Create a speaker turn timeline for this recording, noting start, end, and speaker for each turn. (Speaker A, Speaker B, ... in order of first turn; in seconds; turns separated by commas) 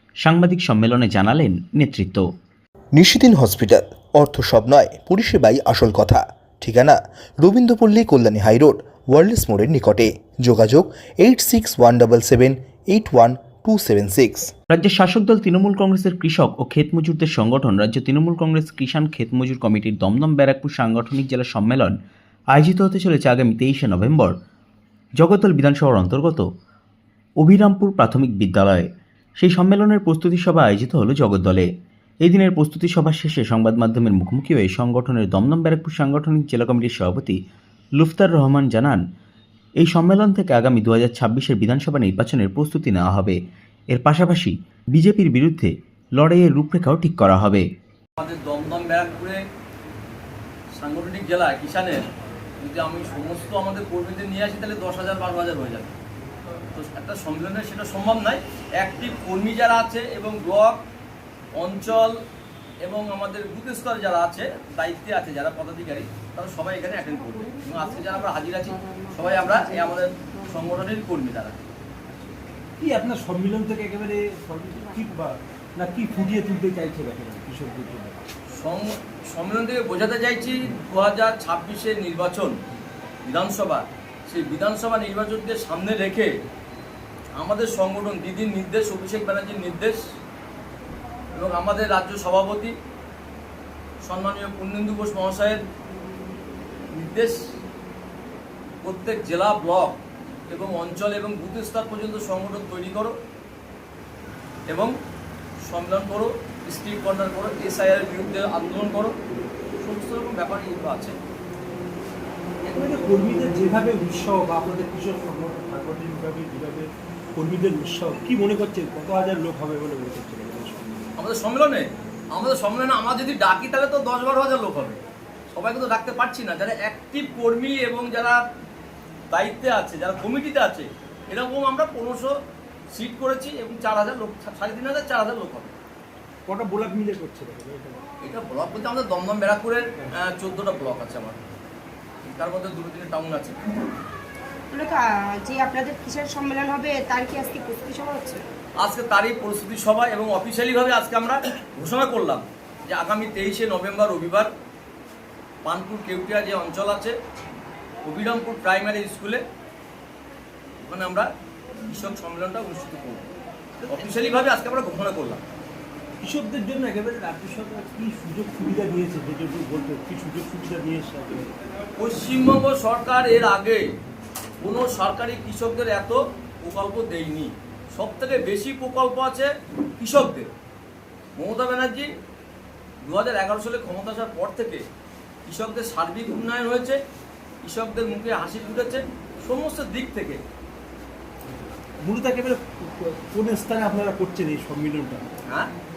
Speaker A: 0.2-2.2, Speaker B: 2.9-14.5, Speaker A: 14.7-21.9, Speaker A: 22.5-24.3, Speaker A: 25.2-26.4, Speaker A: 27.4-31.7, Speaker A: 32.2-37.4, Speaker A: 38.0-39.0, Speaker A: 39.8-43.4, Speaker A: 43.9-47.6, Speaker C: 48.2-49.4, Speaker C: 50.8-52.0, Speaker C: 52.6-55.9, Speaker C: 56.7-60.8, Speaker C: 61.6-62.1, Speaker C: 62.8-71.6, Speaker D: 68.8-69.1, Speaker E: 72.8-78.2, Speaker C: 78.5-82.6, Speaker C: 83.2-86.3, Speaker C: 87.3-90.0, Speaker C: 91.3-92.7, Speaker C: 94.0-95.6, Speaker C: 96.9-97.4, Speaker C: 98.8-103.1, Speaker C: 105.6-109.1, Speaker C: 109.8-111.2, Speaker E: 112.7-121.1, Speaker C: 121.2-125.0, Speaker C: 125.5-128.4, Speaker C: 129.3-132.3, Speaker C: 132.9-135.7, Speaker E: 136.5-138.0, Speaker C: 138.2-141.4, Speaker C: 142.2-143.6, Speaker D: 144.7-148.4, Speaker C: 148.8-154.5, Speaker C: 155.6-157.1, Speaker C: 158.0-159.4, Speaker C: 160.8-161.3, Speaker C: 161.9-163.2, Speaker C: 163.9-165.4, Speaker E: 166.2-171.5, Speaker C: 172.0-173.8, Speaker C: 174.6-180.5, Speaker C: 181.3-182.1, Speaker C: 183.0-184.8, Speaker C: 185.5-187.0, Speaker C: 187.6-190.4, Speaker E: 192.0-195.2